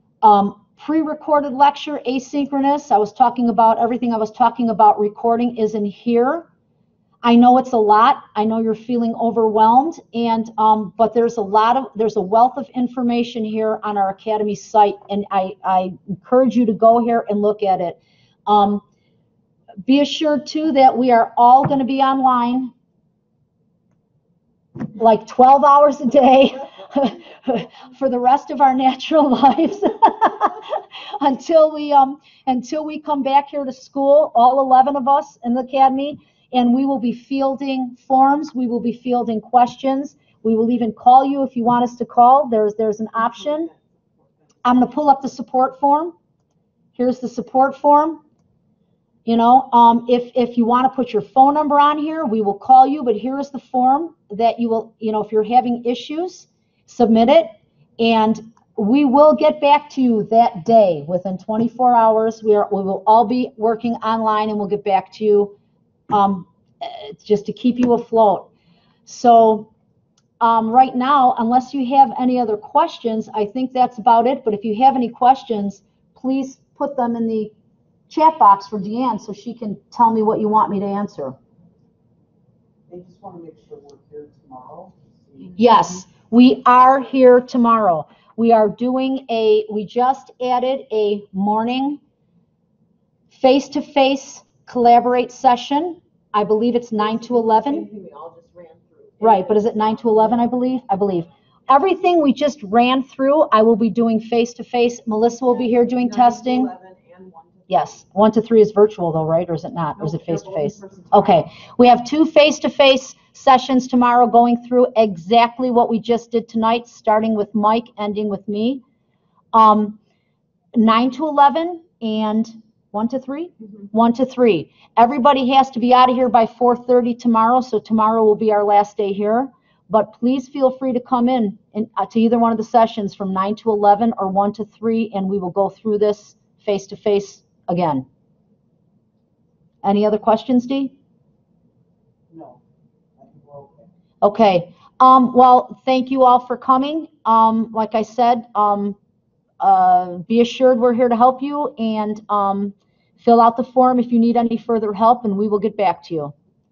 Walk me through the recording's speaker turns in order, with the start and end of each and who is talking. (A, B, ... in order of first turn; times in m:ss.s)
0:00.2-0:06.5 A
0:07.2-0:18.8 A
0:19.9-0:22.7 A
0:24.9-0:43.7 A
0:43.4-0:43.8 B
0:44.6-0:46.1 A
0:47.0-0:48.2 A
0:49.2-1:05.5 A
1:06.1-1:08.5 A
1:09.0-1:09.7 A
1:10.4-1:17.5 A
1:18.1-1:21.3 A
1:22.9-1:25.7 B
1:25.6-1:32.0 A
1:33.3-1:37.9 A
1:37.0-1:40.4 B
1:39.2-1:46.7 A
1:45.5-1:48.0 B
1:47.7-1:58.8 A
1:50.0-1:51.5 B
1:59.5-2:00.0 A
2:00.7-2:18.0 A
2:19.8-2:20.9 A
2:22.3-2:22.6 B
2:23.2-2:23.9 B
2:24.2-2:29.0 A
2:29.6-2:36.3 A